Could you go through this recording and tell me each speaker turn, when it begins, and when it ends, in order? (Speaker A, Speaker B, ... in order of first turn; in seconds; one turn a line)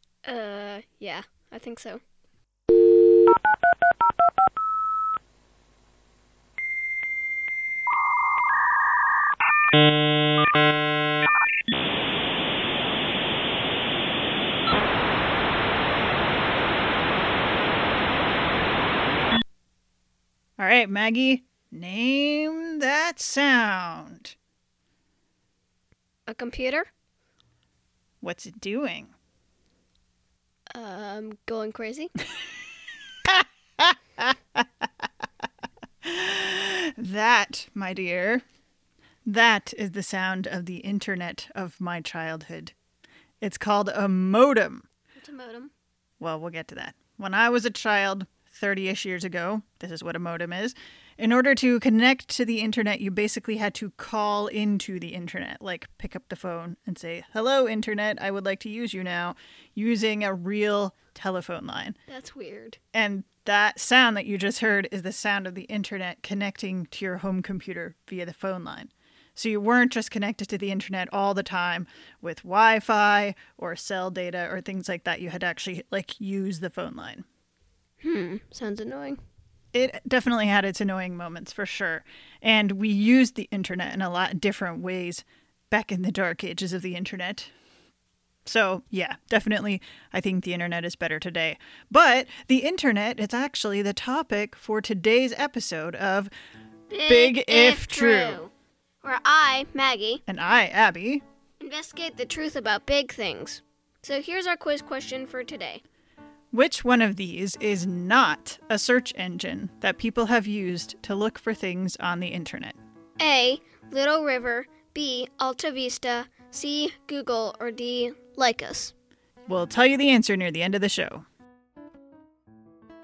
Speaker A: 0.2-2.0
Speaker B: 20.6-24.4
Speaker A: 26.3-26.9
Speaker B: 28.2-29.1
Speaker A: 30.7-32.1
Speaker B: 36.0-38.4
Speaker B: 39.2-42.8
Speaker B: 43.4-44.9
Speaker A: 45.2-45.7
Speaker B: 46.2-62.0
Speaker A: 62.1-62.8
Speaker B: 62.9-77.2
Speaker A: 78.0-79.2
Speaker B: 79.7-87.5
Speaker B: 88.5-96.3
Speaker A: 96.9-98.5
Speaker B: 97.1-98.4
Speaker A: 99.0-100.2
Speaker B: 100.3-101.2
Speaker A: 101.6-105.8
Speaker B: 106.5-112.8
Speaker A: 113.2-118.9
Speaker B: 119.5-121.3